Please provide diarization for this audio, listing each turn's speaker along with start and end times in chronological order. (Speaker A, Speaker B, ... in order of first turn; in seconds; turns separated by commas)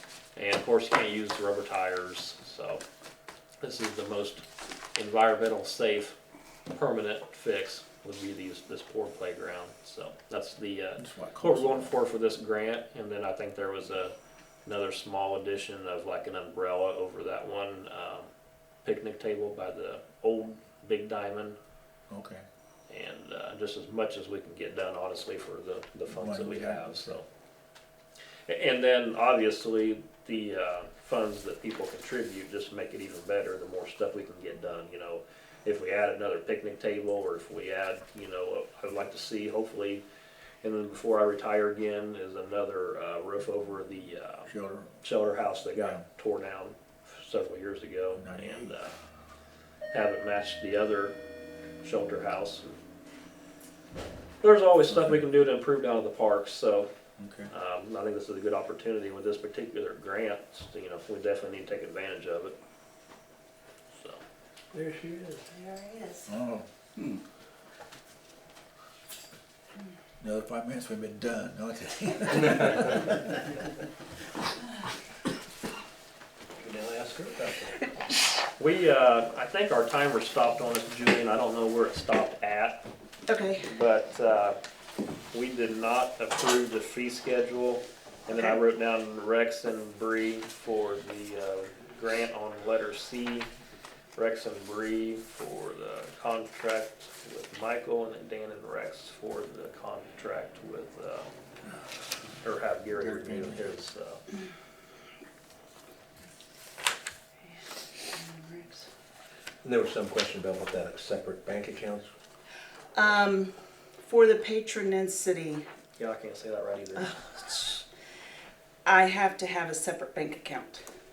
Speaker A: 0.3-2.8, Speaker A: 3.6-4.4, Speaker A: 5.0-6.2, Speaker A: 6.7-14.1, Speaker B: 11.0-11.9, Speaker A: 14.7-18.3, Speaker A: 18.8-21.6, Speaker B: 22.1-22.4, Speaker A: 22.9-27.2, Speaker B: 26.1-27.2, Speaker A: 28.5-40.0, Speaker A: 40.6-44.5, Speaker B: 44.5-45.0, Speaker A: 45.0-48.9, Speaker B: 45.7-46.1, Speaker B: 48.1-48.8, Speaker A: 49.9-51.2, Speaker A: 51.8-52.7, Speaker A: 54.4-56.9, Speaker B: 57.2-57.5, Speaker A: 57.5-62.6, Speaker A: 63.9-64.2, Speaker C: 64.7-65.5, Speaker D: 65.5-66.3, Speaker B: 66.3-66.7, Speaker B: 70.2-73.4, Speaker C: 76.6-77.9, Speaker A: 78.6-82.8, Speaker D: 83.3-83.7, Speaker A: 83.7-84.6, Speaker A: 85.3-93.5, Speaker D: 88.3-88.6, Speaker A: 94.2-101.3, Speaker A: 102.4-104.2, Speaker B: 102.9-103.7, Speaker D: 107.5-108.9, Speaker C: 109.6-112.1, Speaker D: 113.0-115.7, Speaker A: 116.0-117.8, Speaker D: 117.0-117.8, Speaker D: 118.9-120.8